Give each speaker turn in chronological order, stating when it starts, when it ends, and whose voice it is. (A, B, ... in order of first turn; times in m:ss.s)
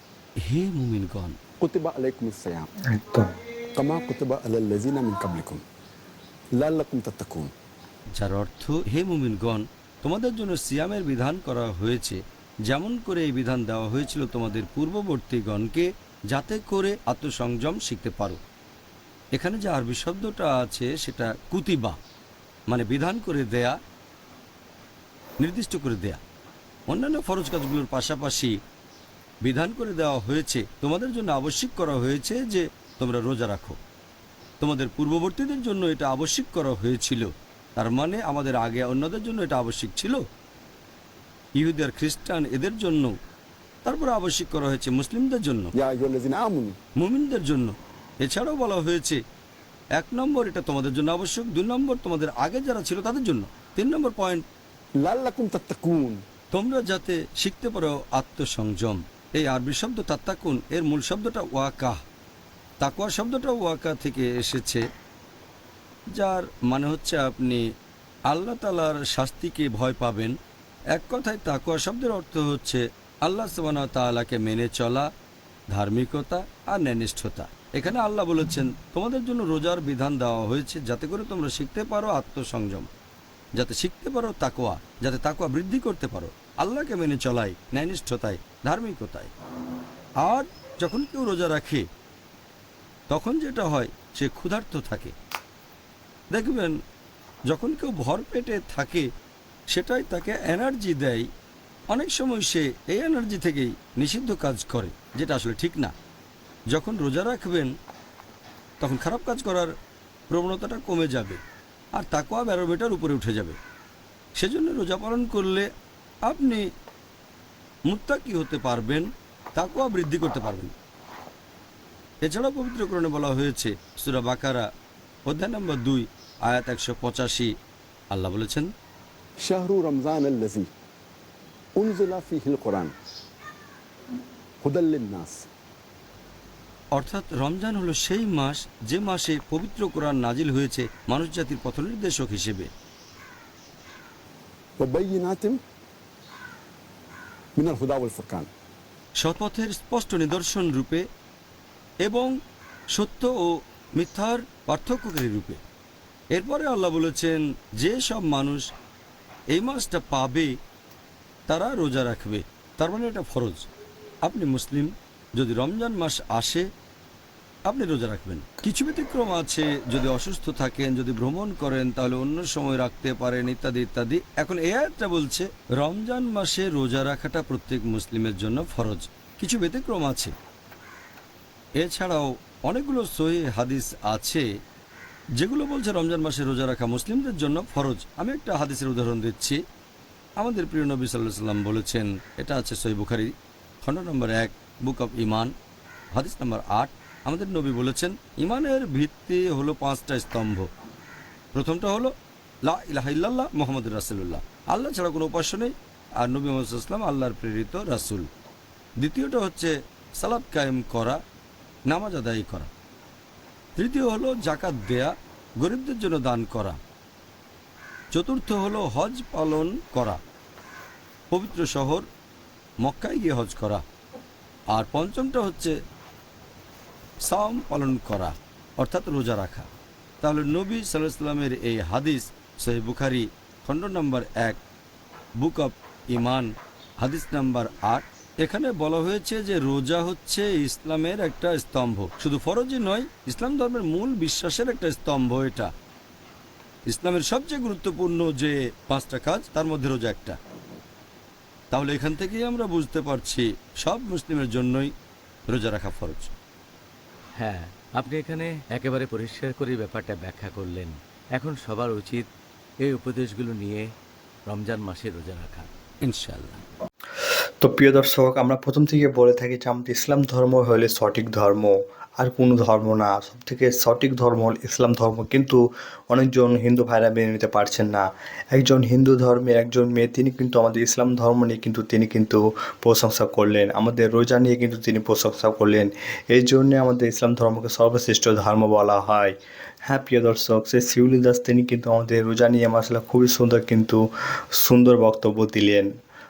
0:00.5-0:01.4 A
0:01.6-0:02.7 B
0:02.9-0:03.3 C
0:03.8-0:05.6 B
0:06.6-0:07.5 B
0:08.2-0:18.4 A
0:19.3-0:22.0 A
0:22.7-0:23.8 A
0:25.4-0:26.2 A
0:26.9-0:28.5 A
0:29.4-0:33.8 A
0:34.6-0:40.2 A
0:41.6-0:43.2 A
0:43.8-0:45.7 A
0:45.8-0:46.8 B
0:47.0-0:49.2 A
0:50.0-0:54.4 A
0:55.0-0:56.2 B
0:56.5-1:02.0 A
1:02.8-1:04.8 A
1:06.2-1:07.6 A
1:08.3-1:10.3 A
1:10.9-1:15.1 A
1:15.7-1:22.9 A
1:23.6-1:29.3 A
1:30.2-1:31.8 A
1:33.1-1:35.1 A
1:36.3-1:36.8 A
1:37.5-1:39.1 A
1:39.7-1:41.3 A
1:41.9-1:45.9 A
1:46.7-1:47.7 A
1:48.8-1:49.7 A
1:50.3-1:51.4 A
1:52.0-1:53.6 A
1:54.4-1:55.7 A
1:56.3-1:56.6 A
1:57.9-2:00.7 A
2:02.2-2:04.7 A
2:05.3-2:07.5 A
2:08.1-2:08.7 A
2:09.4-2:10.7 B
2:11.8-2:12.9 B
2:14.6-2:15.5 B
2:16.9-2:22.7 A
2:24.8-2:25.6 B
2:27.6-2:28.5 B
2:29.2-2:31.0 A
2:32.0-2:32.3 A
2:32.9-2:35.6 A
2:36.3-2:38.7 A
2:39.5-2:40.5 A
2:41.5-2:43.6 A
2:44.2-2:46.7 A
2:47.7-3:00.3 A
3:01.8-3:04.4 A
3:05.4-3:09.6 A
3:10.4-3:15.5 A
3:16.2-3:20.7 A
3:21.6-3:22.1 A
3:22.7-3:28.3 A
3:29.0-3:31.2 A
3:31.9-3:32.7 A
3:33.8-3:36.8 A
3:38.1-3:40.2 A
3:41.3-3:42.0 A
3:42.8-3:43.8 A
3:44.7-3:45.7 A
3:47.2-3:49.7 A
3:50.2-3:54.6 A
3:55.4-3:56.5 A
3:57.0-4:05.7 A
4:06.9-4:10.4 A
4:11.7-4:14.9 A
4:15.5-4:16.3 A
4:17.4-4:22.3 D
4:22.8-4:23.8 D
4:24.5-4:25.7 D
4:26.0-4:26.6 A
4:27.6-4:49.3 C
4:49.9-4:54.0 C
4:54.6-4:55.9 C